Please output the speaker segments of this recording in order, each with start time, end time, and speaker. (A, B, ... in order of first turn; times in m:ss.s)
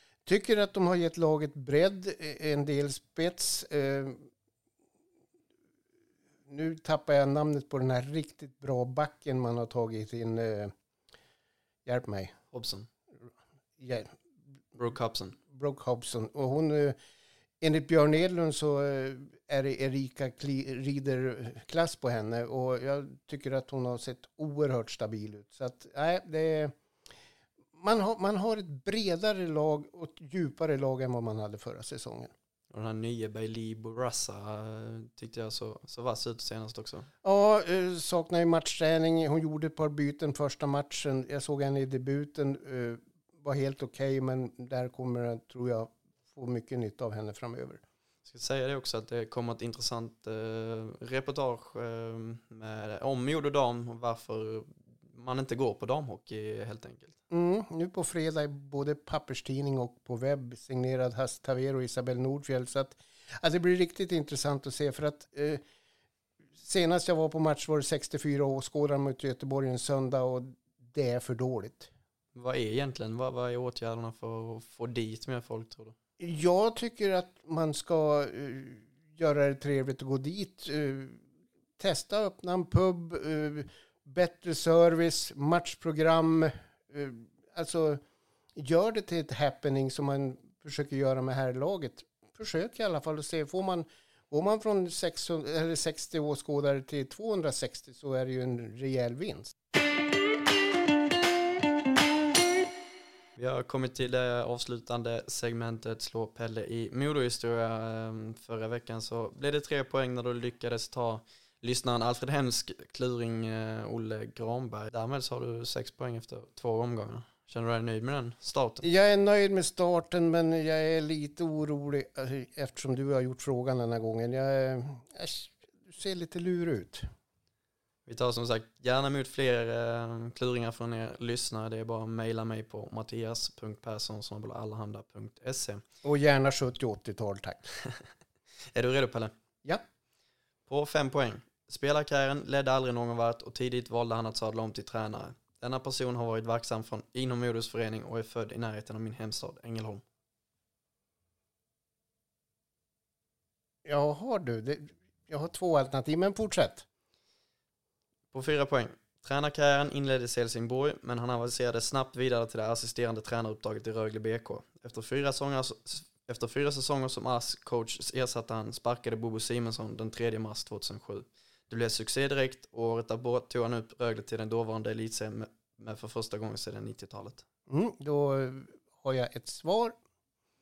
0:00.2-0:04.2 A
0:06.5-0:10.7 A
0:11.8-0:12.3 A
0:12.5-0:12.9 B
0:13.8-0:14.1 A
0:14.8-0:15.4 B
0:15.5-0:17.0 A
0:17.6-0:26.7 A
0:27.8-0:32.3 A
0:32.7-0:37.1 B
0:37.2-0:47.8 A
0:48.2-0:57.2 B
0:57.3-1:05.6 A
1:06.6-1:11.9 A
1:12.3-1:15.9 B
1:16.2-1:21.2 A
1:21.8-1:28.0 A
1:28.5-1:39.5 A
1:43.4-1:58.8 B
1:58.8-2:07.1 A
2:08.0-2:15.8 B
2:16.0-2:17.6 A
2:18.7-2:19.3 B
2:20.7-2:30.0 B
2:33.8-2:36.8 A
2:38.3-2:57.4 B
2:57.7-3:00.0 A